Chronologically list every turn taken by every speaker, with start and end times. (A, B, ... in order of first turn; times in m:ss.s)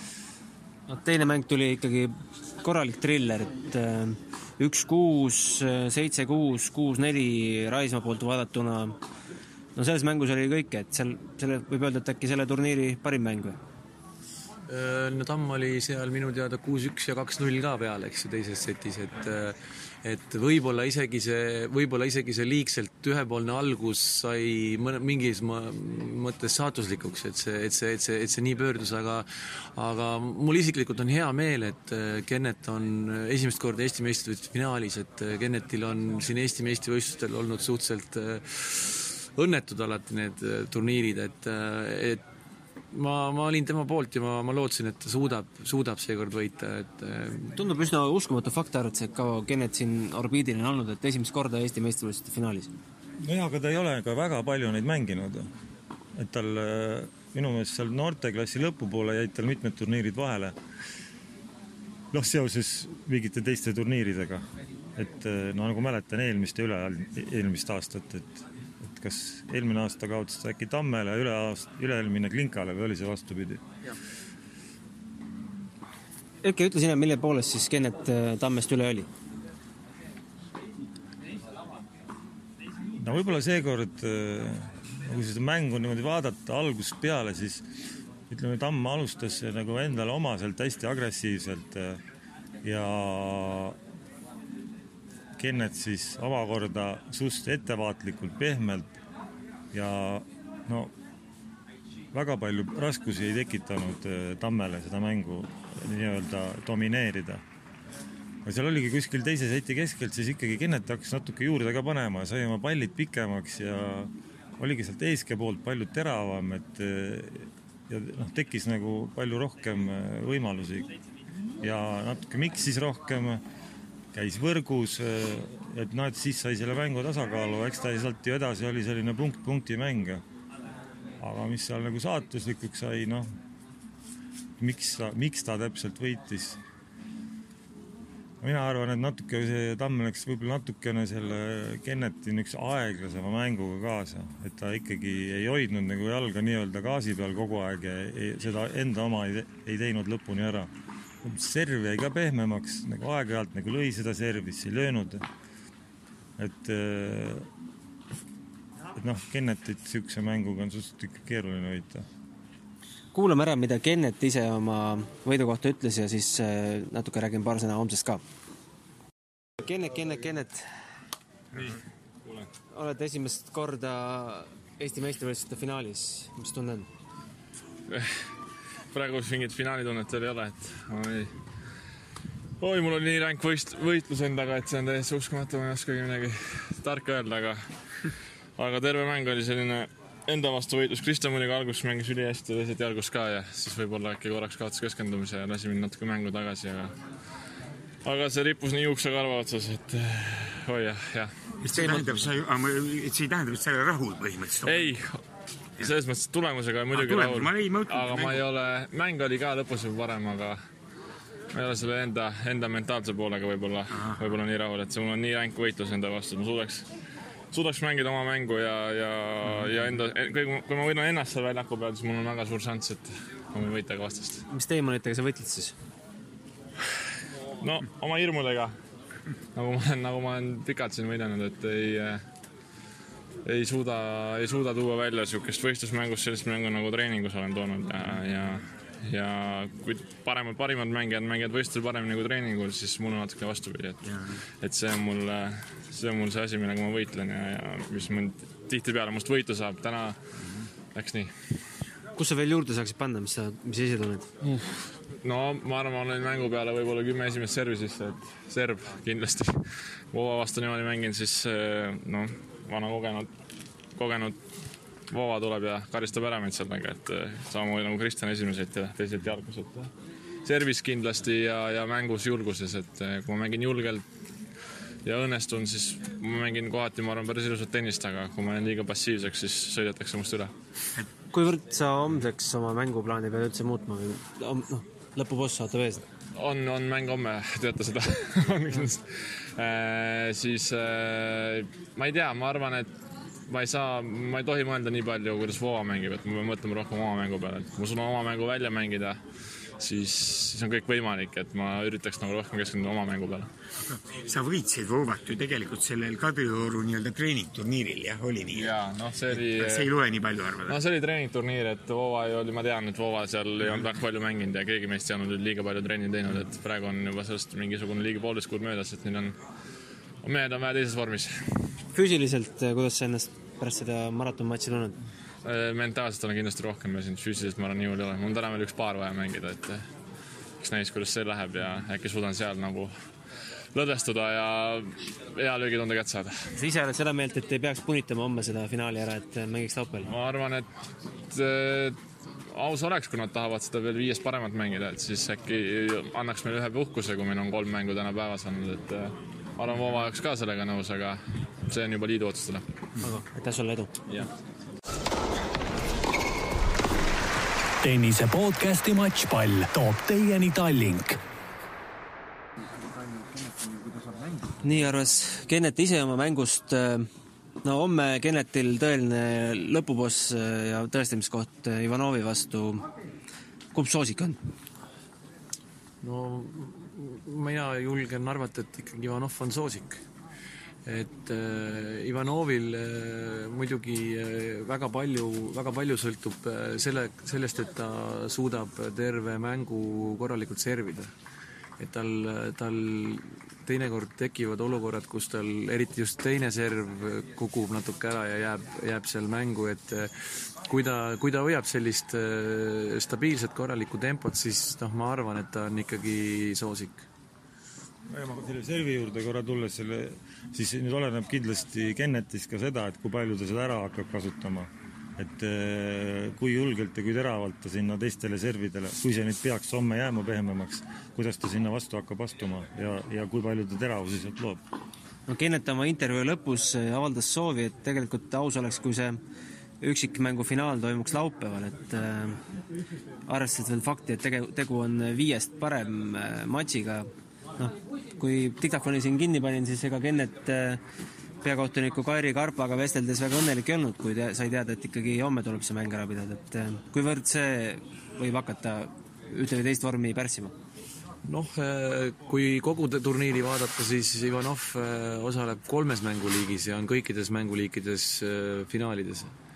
0:00.9-0:09.0 A
0:09.8-0:13.6 A
0:14.7-0:42.2 B
0:42.9-0:47.6 B
0:47.5-0:52.7 A
0:53.2-0:55.5 C
0:56.1-1:00.5 C
1:02.1-1:04.4 C
1:05.0-1:13.6 C
1:16.4-1:19.1 A
1:23.0-1:27.6 C
1:28.3-1:32.0 C
1:32.6-1:33.8 C
1:35.4-1:38.9 C
1:39.7-1:40.9 C
1:42.1-1:47.4 C
1:48.4-2:00.9 C
2:01.6-2:03.4 C
2:04.1-2:10.2 C
2:11.2-2:13.3 C
2:14.6-2:16.6 C
2:18.4-2:30.7 C
2:31.2-2:35.3 C
2:36.4-2:37.5 C
2:39.0-2:42.0 C
2:43.1-2:48.2 A
2:49.6-2:50.7 A
2:51.5-2:52.5 D
2:52.7-2:56.9 A
2:57.9-2:58.2 D
2:58.9-3:01.3 D
3:02.6-3:07.6 D
3:08.6-3:16.9 D
3:18.0-3:22.2 D
3:21.6-3:25.0 E
3:24.6-3:25.2 D
3:25.8-3:30.6 D
3:26.9-3:28.5 E
3:31.5-3:36.8 D
3:33.9-3:34.3 E
3:37.5-3:44.4 D
3:44.5-3:45.8 A
3:47.6-3:48.8 D
3:49.5-3:52.2 D
3:53.4-4:04.0 D
4:04.6-4:10.2 D
4:10.9-4:11.3 D
4:12.1-4:14.3 A
4:14.4-4:23.3 D
4:24.0-4:24.4 D
4:25.1-4:29.9 D
4:30.4-4:34.0 D
4:35.0-4:40.5 D
4:41.3-4:46.0 A
4:46.3-4:52.9 D
4:53.5-4:59.2 D
4:59.8-5:03.5 D
5:04.1-5:10.8 E
5:08.5-5:09.9 D
5:10.6-5:19.4 D
5:20.2-5:21.7 D
5:21.9-5:25.0 A
5:25.4-5:29.9 D
5:30.6-5:32.9 D
5:33.7-5:36.4 D
5:36.5-5:40.1 A
5:40.1-5:40.7 D
5:41.3-5:42.0 D
5:42.5-5:52.6 D
5:53.0-5:54.0 A
5:57.8-6:01.2 F
6:03.1-6:04.4 B
6:04.6-6:07.1 A
6:07.6-6:12.9 A
6:13.7-6:14.4 A
6:16.0-6:20.0 B
6:20.8-6:31.1 B
6:31.8-6:47.0 B
6:48.1-7:04.6 C
7:05.3-7:09.2 A
7:09.8-7:12.4 A
7:13.3-7:20.8 A
7:21.4-7:30.5 A
7:31.2-7:39.3 B